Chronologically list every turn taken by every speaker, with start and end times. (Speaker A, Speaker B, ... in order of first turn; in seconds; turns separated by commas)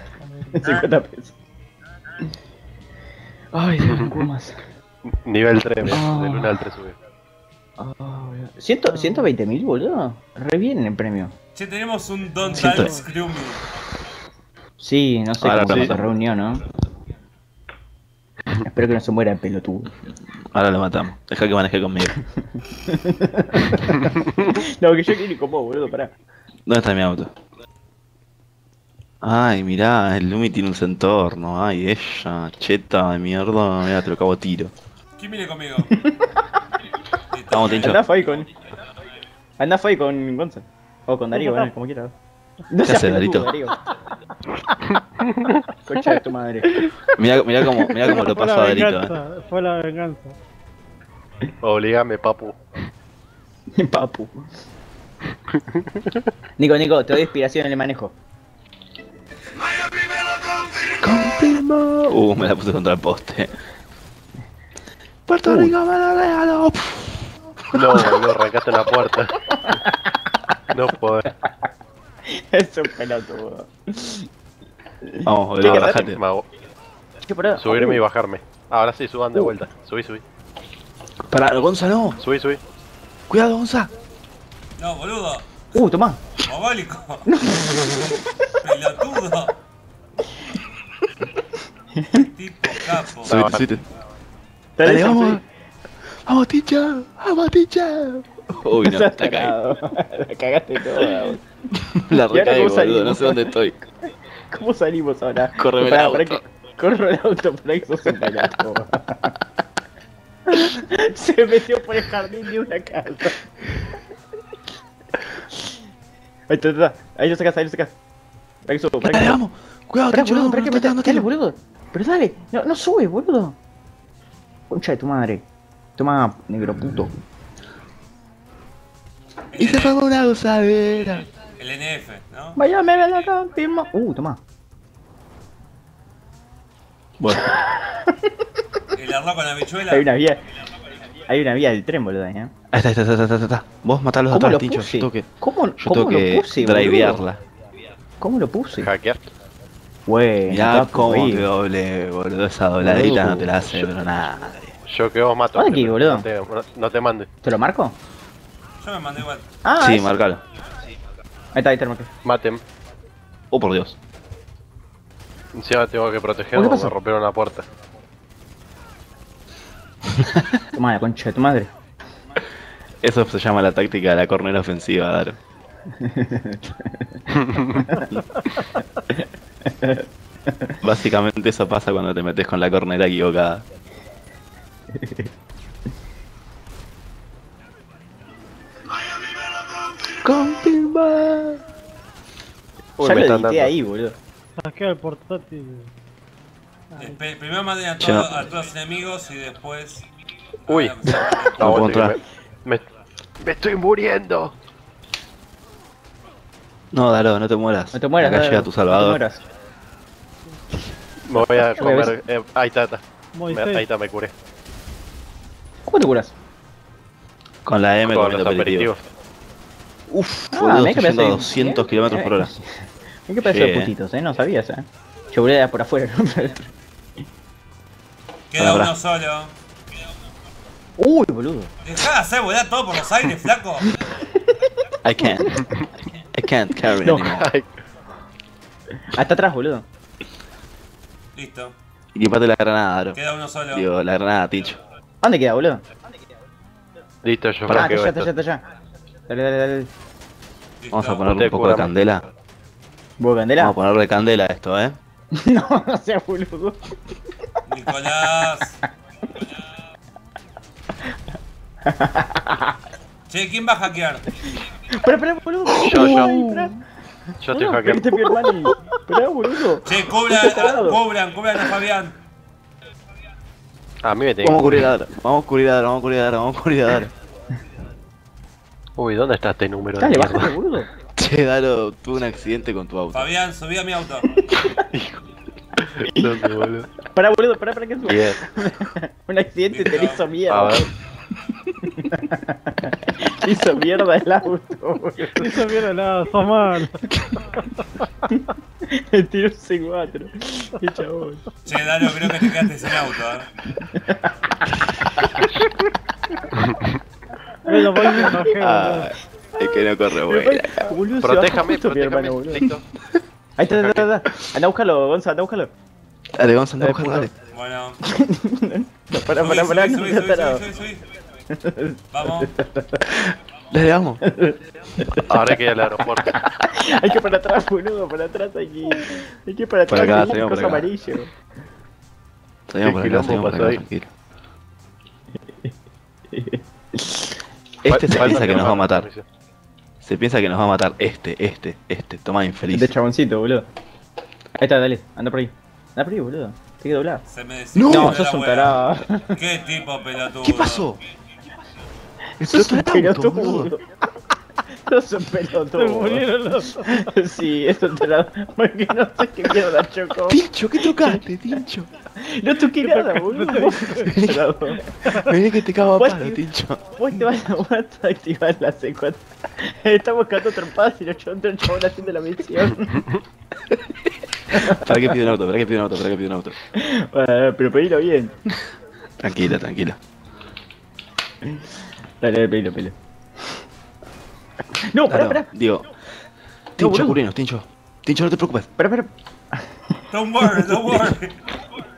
Speaker A: 0.3-0.6, Speaker B: 0.5-1.3, Speaker B: 3.5-4.6, Speaker C: 3.9-4.2, Speaker C: 5.1-7.0, Speaker B: 5.9-6.7, Speaker B: 7.8-11.3, Speaker A: 8.9-9.3, Speaker D: 11.6-13.6, Speaker A: 12.4-13.1, Speaker E: 12.6-12.9, Speaker B: 14.8-16.6, Speaker C: 15.4-15.9, Speaker E: 15.5-16.0, Speaker B: 18.6-19.9, Speaker E: 20.5-22.1, Speaker B: 22.9-26.1, Speaker E: 26.7-27.3, Speaker E: 29.2-34.7, Speaker D: 35.2-36.0, Speaker B: 35.9-36.4, Speaker D: 37.3-38.4, Speaker E: 37.5-38.0, Speaker B: 37.8-38.5, Speaker B: 39.6-42.1, Speaker B: 42.7-43.8, Speaker E: 42.8-43.5, Speaker C: 44.9-45.6, Speaker B: 45.9-46.9, Speaker E: 47.2-49.1, Speaker A: 48.1-50.4, Speaker C: 51.6-52.6, Speaker B: 53.8-54.4, Speaker C: 55.5-56.3, Speaker B: 56.6-58.1, Speaker E: 61.0-63.5, Speaker E: 65.3-68.0, Speaker B: 65.5-65.7, Speaker C: 67.7-69.4, Speaker B: 69.6-70.2, Speaker C: 70.7-71.3, Speaker B: 72.3-74.3, Speaker B: 75.1-76.1, Speaker E: 75.3-76.2, Speaker C: 75.8-76.5, Speaker B: 77.3-78.0, Speaker C: 77.6-80.2, Speaker E: 81.3-82.2, Speaker C: 82.2-82.6, Speaker E: 83.3-83.9, Speaker D: 84.8-85.9, Speaker B: 85.7-86.2, Speaker D: 86.4-87.3, Speaker B: 87.3-88.5, Speaker D: 88.6-89.5, Speaker B: 92.0-92.3, Speaker D: 92.1-93.4, Speaker E: 93.2-93.8, Speaker C: 93.3-93.7, Speaker B: 94.8-95.5, Speaker E: 94.8-95.4, Speaker E: 96.2-99.5, Speaker B: 98.8-101.4, Speaker E: 101.9-103.9, Speaker B: 102.1-103.5, Speaker B: 104.5-109.3, Speaker E: 105.5-106.4, Speaker B: 110.5-113.3, Speaker B: 116.5-117.9, Speaker B: 118.7-119.4, Speaker E: 119.0-121.3, Speaker B: 120.1-123.5, Speaker B: 124.7-125.5, Speaker B: 126.0-127.1, Speaker D: 129.5-130.0, Speaker E: 129.6-131.3, Speaker D: 131.6-132.6, Speaker B: 132.6-134.4, Speaker B: 137.2-138.3, Speaker D: 138.9-140.1, Speaker B: 139.9-140.4, Speaker B: 141.3-142.5, Speaker E: 142.7-147.4, Speaker B: 144.3-147.2, Speaker B: 148.2-148.9, Speaker C: 148.8-149.3, Speaker B: 150.1-151.5, Speaker E: 150.5-154.7, Speaker B: 152.8-153.4, Speaker C: 153.5-153.9, Speaker C: 154.8-157.3, Speaker B: 155.5-156.3, Speaker B: 157.4-158.0, Speaker D: 158.8-159.4, Speaker B: 159.6-160.1, Speaker E: 159.8-160.4, Speaker B: 161.6-162.1, Speaker C: 162.2-162.6, Speaker E: 163.5-164.0, Speaker C: 165.5-167.7, Speaker B: 166.5-166.9, Speaker B: 170.7-171.7, Speaker E: 173.0-175.4, Speaker B: 176.0-177.1, Speaker C: 177.4-177.9, Speaker B: 179.2-180.1, Speaker E: 180.8-183.7, Speaker B: 184.9-185.3, Speaker E: 190.2-191.6, Speaker B: 193.0-194.2, Speaker C: 193.0-193.7, Speaker A: 194.6-195.9, Speaker D: 197.0-200.1, Speaker E: 198.0-198.3, Speaker D: 200.7-201.9, Speaker C: 200.7-202.9, Speaker E: 201.6-202.2, Speaker C: 203.4-204.5, Speaker E: 206.9-209.2, Speaker B: 207.9-209.4, Speaker C: 211.3-214.3, Speaker B: 211.7-212.1, Speaker A: 213.3-213.8, Speaker B: 215.9-216.3, Speaker E: 217.7-218.9, Speaker C: 218.1-219.0, Speaker E: 220.1-222.5, Speaker B: 220.5-226.7, Speaker E: 223.4-223.9, Speaker D: 228.5-229.5, Speaker E: 228.6-228.9, Speaker B: 231.0-231.7, Speaker D: 231.8-233.9, Speaker B: 233.9-234.4, Speaker E: 235.0-235.6, Speaker B: 235.3-235.5, Speaker E: 236.3-237.5, Speaker B: 236.9-237.4, Speaker C: 237.4-237.7, Speaker B: 239.1-239.8, Speaker D: 241.3-241.7, Speaker E: 242.2-243.2, Speaker D: 243.1-243.9, Speaker E: 243.7-244.8, Speaker B: 245.2-245.8, Speaker C: 247.2-248.3, Speaker B: 247.7-248.6, Speaker B: 249.3-249.9, Speaker D: 250.8-251.3, Speaker E: 250.9-252.2, Speaker C: 251.3-251.9, Speaker B: 253.2-253.8, Speaker E: 253.6-255.0, Speaker B: 255.4-256.9, Speaker D: 257.7-258.8, Speaker B: 261.9-262.8, Speaker D: 263.3-264.3, Speaker B: 264.8-266.8, Speaker C: 265.8-266.3, Speaker E: 265.9-266.7, Speaker C: 267.4-268.1, Speaker B: 267.6-271.0, Speaker D: 269.9-272.2, Speaker C: 274.0-274.9, Speaker E: 274.4-277.1, Speaker C: 279.0-280.5, Speaker B: 280.0-280.9, Speaker E: 281.2-283.3, Speaker D: 283.1-284.3, Speaker B: 284.3-284.7, Speaker C: 284.9-285.2, Speaker C: 285.8-286.9, Speaker B: 286.0-286.3, Speaker B: 287.1-290.9, Speaker C: 288.1-288.4, Speaker D: 289.7-290.3, Speaker C: 290.5-290.9, Speaker B: 291.8-295.6, Speaker A: 295.4-297.0, Speaker B: 298.3-301.4, Speaker D: 301.7-303.5, Speaker B: 302.2-302.5, Speaker B: 303.8-304.4, Speaker C: 306.6-306.9, Speaker A: 307.7-309.1, Speaker B: 307.8-308.5, Speaker E: 308.6-310.9, Speaker B: 309.6-312.6, Speaker C: 311.2-312.8, Speaker B: 313.6-315.7, Speaker C: 313.7-314.1, Speaker E: 316.4-317.3, Speaker B: 316.8-317.3, Speaker D: 317.5-318.0, Speaker B: 318.0-320.6, Speaker D: 319.4-321.0, Speaker B: 321.5-323.1, Speaker D: 322.1-322.5, Speaker E: 323.7-324.2, Speaker B: 324.2-325.4, Speaker C: 325.3-326.4, Speaker B: 326.3-331.3, Speaker E: 329.9-330.9, Speaker E: 332.7-334.1, Speaker C: 332.8-333.8, Speaker B: 336.3-336.6, Speaker E: 337.8-339.1, Speaker C: 337.9-339.2, Speaker E: 340.0-342.9, Speaker B: 342.7-343.7, Speaker B: 344.6-347.2, Speaker D: 347.3-350.9, Speaker E: 347.8-348.2, Speaker B: 347.9-349.4, Speaker E: 350.4-351.0, Speaker B: 352.4-353.8, Speaker E: 352.4-353.7, Speaker B: 354.8-356.3, Speaker A: 355.8-357.1, Speaker B: 356.9-361.2, Speaker E: 360.3-361.9, Speaker B: 362.2-364.8, Speaker A: 362.8-363.9, Speaker E: 364.0-364.5, Speaker E: 365.1-366.8, Speaker B: 365.9-373.0, Speaker E: 374.5-376.6, Speaker B: 374.5-375.2, Speaker B: 376.8-378.3, Speaker E: 379.2-380.0, Speaker B: 382.2-382.9, Speaker B: 384.9-385.5, Speaker E: 385.1-385.9, Speaker E: 386.8-388.7, Speaker B: 386.8-387.2, Speaker B: 388.8-389.6, Speaker D: 390.1-391.4